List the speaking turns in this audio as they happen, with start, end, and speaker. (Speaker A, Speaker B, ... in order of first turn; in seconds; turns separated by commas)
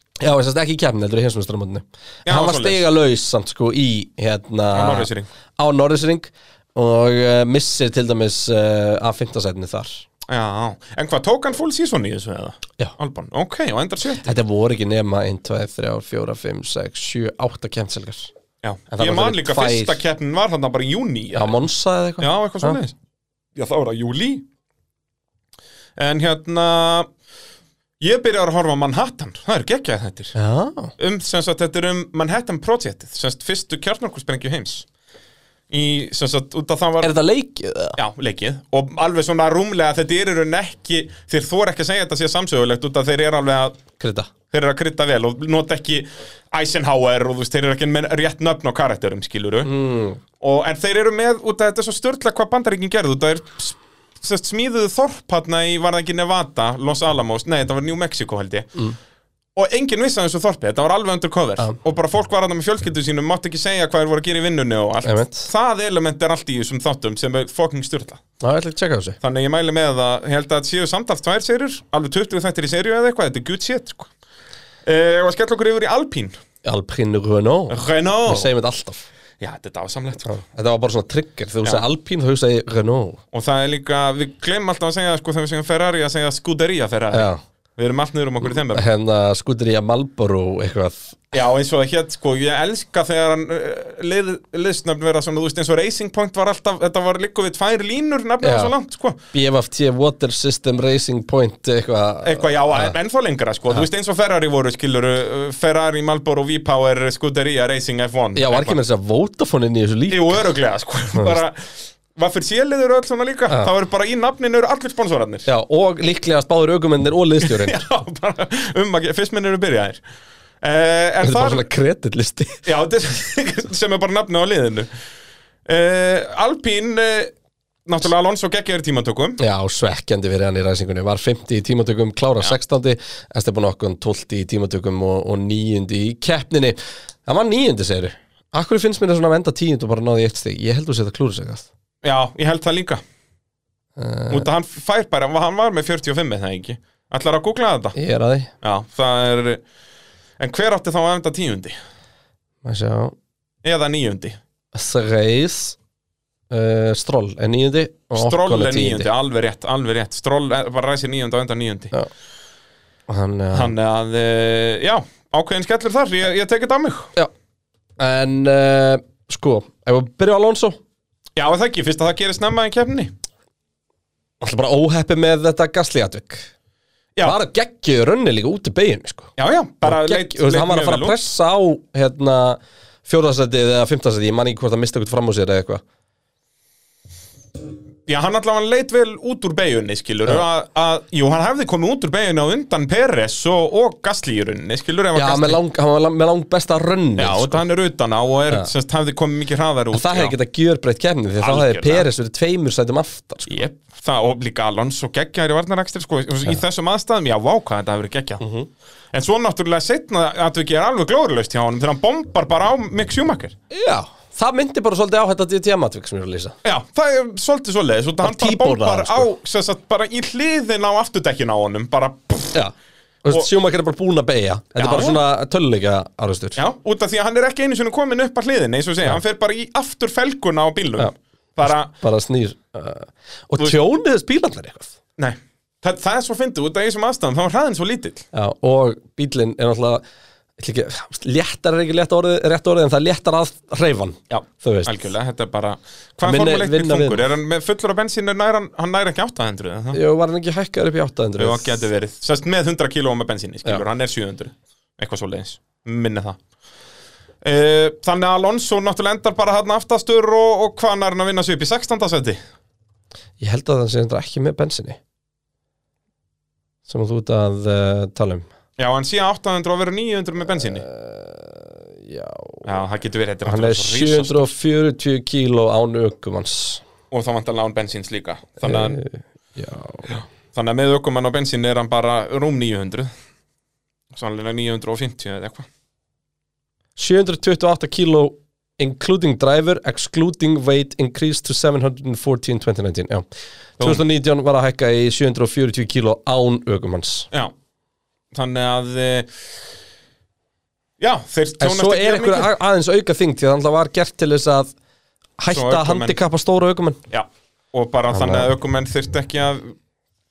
Speaker A: 0.2-10.1, Speaker B: 2.3-2.8, Speaker B: 4.7-5.3, Speaker B: 10.3-14.3, Speaker A: 14.2-18.3, Speaker B: 18.6-21.6, Speaker A: 18.9-20.0, Speaker A: 21.3-22.8, Speaker B: 22.2-22.9, Speaker B: 23.6-24.4, Speaker B: 26.0-27.1, Speaker B: 28.0-30.4, Speaker A: 30.4-30.9, Speaker B: 31.0-34.9, Speaker B: 35.7-37.1, Speaker A: 37.0-38.0, Speaker B: 38.0-43.8, Speaker A: 44.0-44.3, Speaker B: 44.5-49.7, Speaker A: 49.6-50.2, Speaker B: 50.4-58.8, Speaker B: 59.6-68.2, Speaker A: 65.0-65.5, Speaker A: 68.4-69.2, Speaker B: 69.2-74.1, Speaker B: 74.8-76.4, Speaker A: 76.6-79.1, Speaker B: 77.7-78.5, Speaker B: 79.4-80.3, Speaker A: 80.2-83.2, Speaker B: 83.3-88.9, Speaker A: 87.1-87.4, Speaker A: 88.7-91.2, Speaker B: 91.3-99.2, Speaker A: 98.4-98.7, Speaker A: 99.3-103.0, Speaker B: 102.2-108.8, Speaker A: 108.3-110.4, Speaker B: 110.1-115.5, Speaker A: 115.5-117.8, Speaker B: 117.4-120.0, Speaker B: 120.6-121.7, Speaker A: 121.2-122.7, Speaker B: 122.7-124.9, Speaker B: 125.7-127.3, Speaker B: 127.8-129.4, Speaker A: 129.4-141.7, Speaker B: 142.0-143.0, Speaker A: 144.0-144.5, Speaker B: 144.3-148.0, Speaker A: 147.9-148.5, Speaker B: 148.6-149.6, Speaker B: 150.4-151.8, Speaker A: 152.6-153.2, Speaker B: 153.6-154.4, Speaker A: 154.7-155.8, Speaker A: 156.5-159.1, Speaker B: 158.1-161.9, Speaker A: 163.1-163.7, Speaker B: 163.5-167.1, Speaker A: 168.0-170.8, Speaker B: 171.4-173.1, Speaker A: 174.4-176.5, Speaker A: 177.2-179.3, Speaker B: 179.4-181.2, Speaker A: 179.8-185.8, Speaker B: 188.1-195.6, Speaker A: 195.2-197.6, Speaker B: 197.2-200.3, Speaker A: 199.9-203.6, Speaker B: 201.4-202.1, Speaker B: 203.5-208.4, Speaker A: 208.4-208.7, Speaker B: 209.1-213.6, Speaker A: 213.7-216.6, Speaker B: 216.6-222.6, Speaker A: 218.2-219.3, Speaker A: 223.2-226.6, Speaker B: 224.8-225.2, Speaker B: 226.6-231.9, Speaker A: 231.7-234.9, Speaker B: 235.2-238.2, Speaker A: 238.3-240.0, Speaker A: 240.6-244.9, Speaker B: 244.3-250.0, Speaker A: 246.2-247.2, Speaker A: 249.9-251.9, Speaker B: 251.4-256.4, Speaker B: 257.4-262.4, Speaker A: 263.4-265.0, Speaker A: 266.9-268.5, Speaker B: 268.8-270.9, Speaker A: 270.7-272.7, Speaker B: 272.6-274.5, Speaker A: 273.4-276.8, Speaker B: 277.1-279.0, Speaker A: 278.6-280.1, Speaker B: 280.5-283.1, Speaker B: 284.1-285.7, Speaker A: 287.0-293.3, Speaker A: 293.8-297.3, Speaker B: 298.3-299.3, Speaker B: 301.0-302.5, Speaker A: 301.6-304.7, Speaker A: 305.4-307.0, Speaker B: 305.5-306.2, Speaker B: 307.1-309.8, Speaker A: 308.1-308.5